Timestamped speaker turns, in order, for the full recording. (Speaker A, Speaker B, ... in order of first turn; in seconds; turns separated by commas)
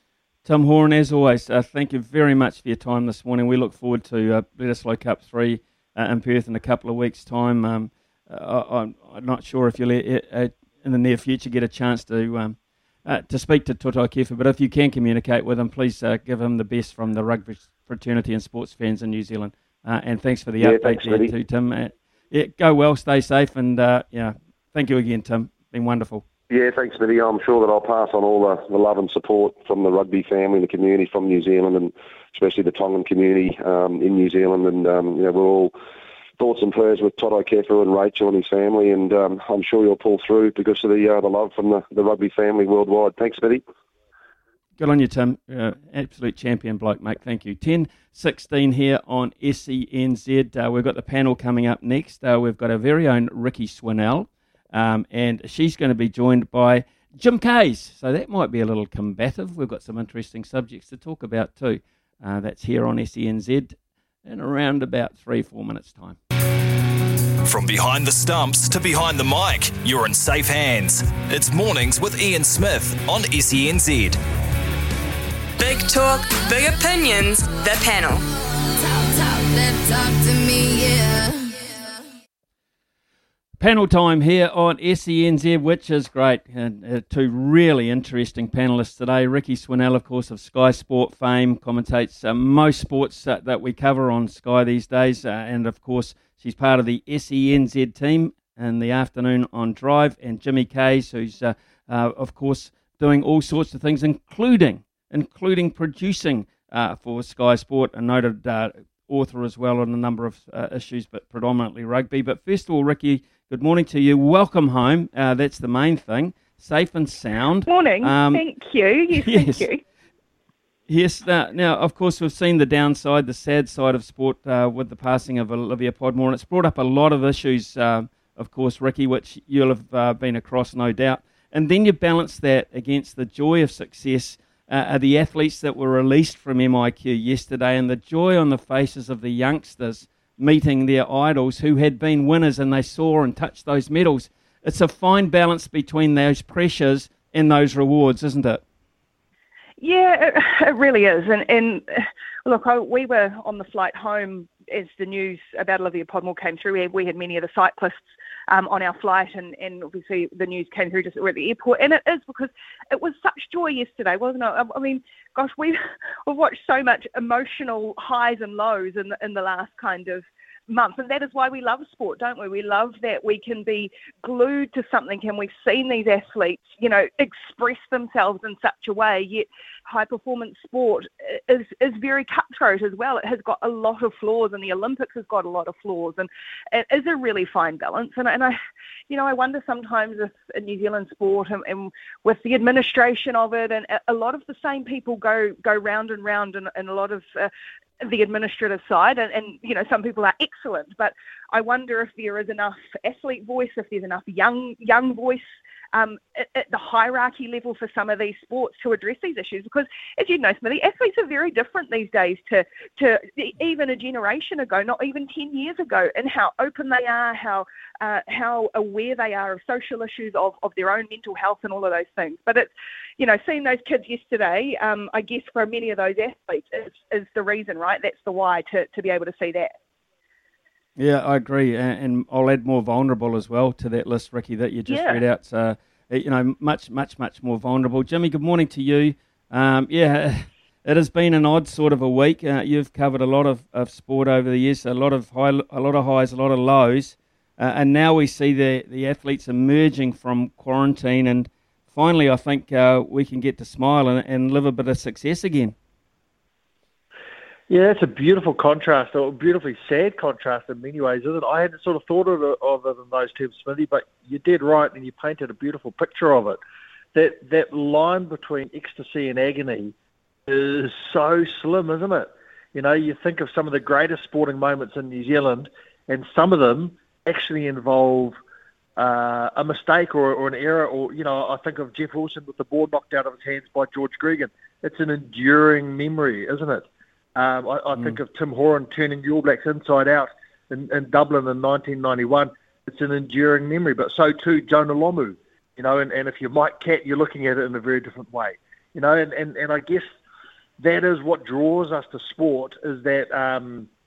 Speaker A: 0.4-26.2, Speaker B: 20.6-21.3, Speaker B: 26.5-35.7, Speaker B: 36.4-43.6, Speaker A: 44.8-66.2, Speaker C: 67.5-74.2, Speaker D: 75.6-78.2, Speaker D: 79.2-81.2, Speaker A: 83.6-118.4, Speaker E: 117.7-119.8, Speaker A: 119.1-119.7, Speaker A: 120.9-148.6, Speaker E: 149.8-188.6, Speaker E: 189.1-197.5, Speaker E: 198.0-229.7, Speaker A: 231.0-255.7, Speaker E: 234.9-235.2, Speaker F: 257.7-266.6, Speaker F: 267.1-269.9, Speaker F: 270.5-278.4, Speaker F: 279.0-300.1, Speaker F: 300.8-303.9